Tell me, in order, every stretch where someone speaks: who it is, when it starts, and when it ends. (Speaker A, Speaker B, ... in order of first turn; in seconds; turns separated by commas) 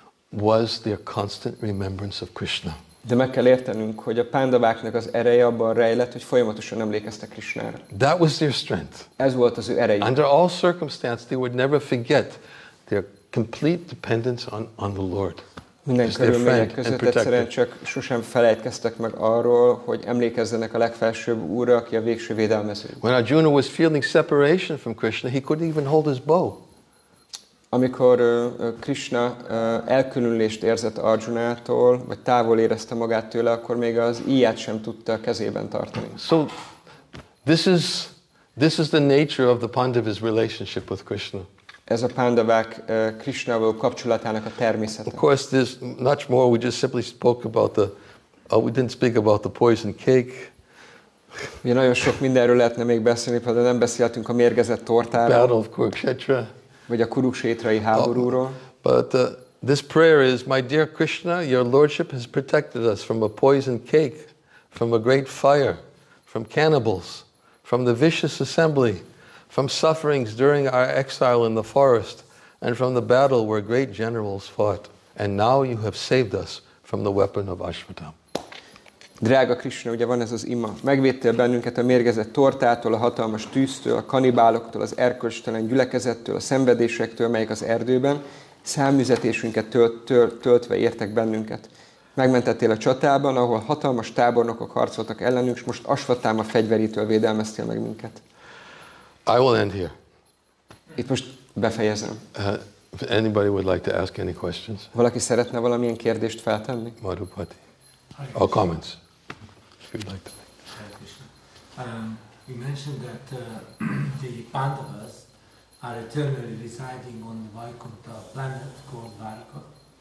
Speaker A: 0.3-2.8, Speaker B: 3.0-7.8, Speaker A: 7.9-9.1, Speaker B: 9.2-10.1, Speaker A: 10.0-15.4, Speaker B: 15.8-23.0, Speaker A: 16.0-17.5, Speaker A: 23.0-26.6, Speaker B: 27.7-36.1, Speaker A: 36.1-36.5, Speaker A: 37.4-41.5, Speaker B: 41.9-45.2, Speaker A: 45.1-47.9, Speaker A: 48.5-50.5, Speaker B: 51.6-55.5, Speaker A: 55.2-56.5, Speaker B: 56.9-58.6, Speaker A: 57.9-78.1, Speaker B: 79.2-98.2, Speaker A: 99.2-99.9, Speaker B: 101.0-102.2, Speaker A: 102.3-104.9, Speaker B: 104.9-107.0, Speaker A: 107.0-107.6, Speaker C: 108.2-108.5, Speaker A: 108.3-109.0, Speaker A: 109.9-110.3, Speaker C: 110.7-115.3, Speaker C: 115.8-119.7